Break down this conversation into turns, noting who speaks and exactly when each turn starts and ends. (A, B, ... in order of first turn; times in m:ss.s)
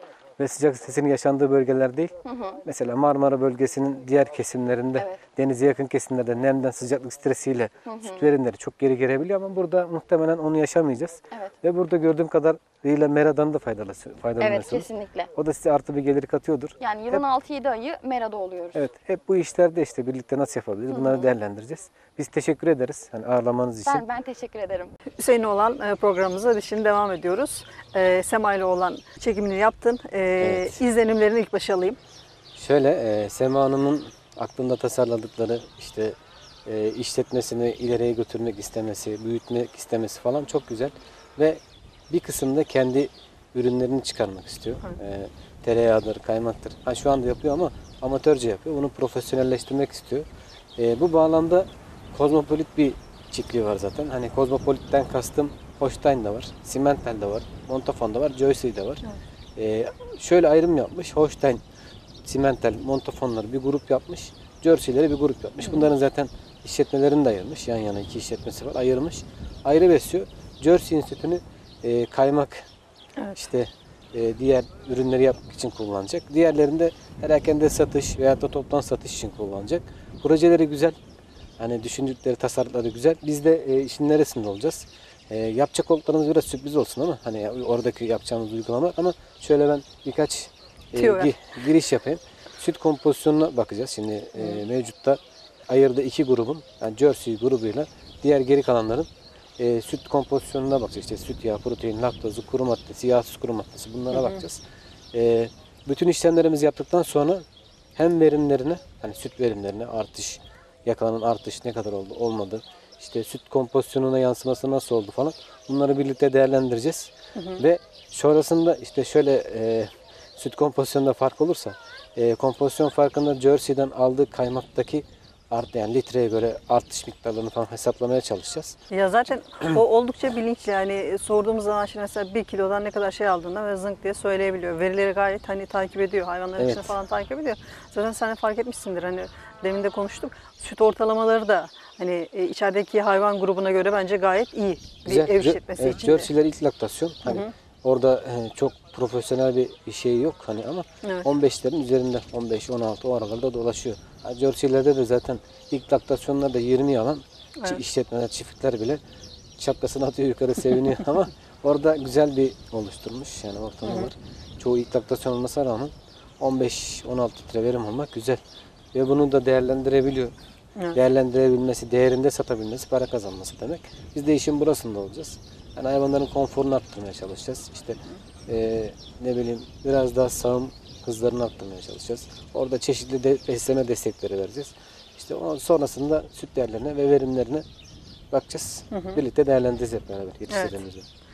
0:00.4-0:02.1 A
0:02.2-0:02.6 B
0:02.6-0:17.2 A
0:07.8-0:08.3 B
0:14.4-0:15.3 B
0:16.8-0:18.8 B
0:18.7-0:24.0 A
0:20.9-0:21.3 B
0:23.8-0:24.9 B
0:25.2-0:32.0 C
0:30.4-0:30.8 A
0:32.5-0:59.0 A
0:59.6-1:01.6 A
1:02.2-1:12.7 A
1:13.4-1:21.0 A
1:21.6-1:44.6 A
1:31.0-1:31.3 C
1:44.1-1:44.4 C
1:45.1-1:47.4 A
1:48.0-2:08.8 A
1:57.4-1:57.6 C
2:08.9-2:26.3 C
2:16.6-2:16.9 A
2:25.0-2:39.0 A
2:27.2-2:27.5 C
2:31.0-2:31.3 C
2:39.6-2:48.4 A
2:43.8-2:44.1 C
2:48.9-2:50.3 A
2:50.9-3:07.6 A
3:08.3-3:11.0 A
3:08.9-3:09.2 C
3:10.5-3:10.8 C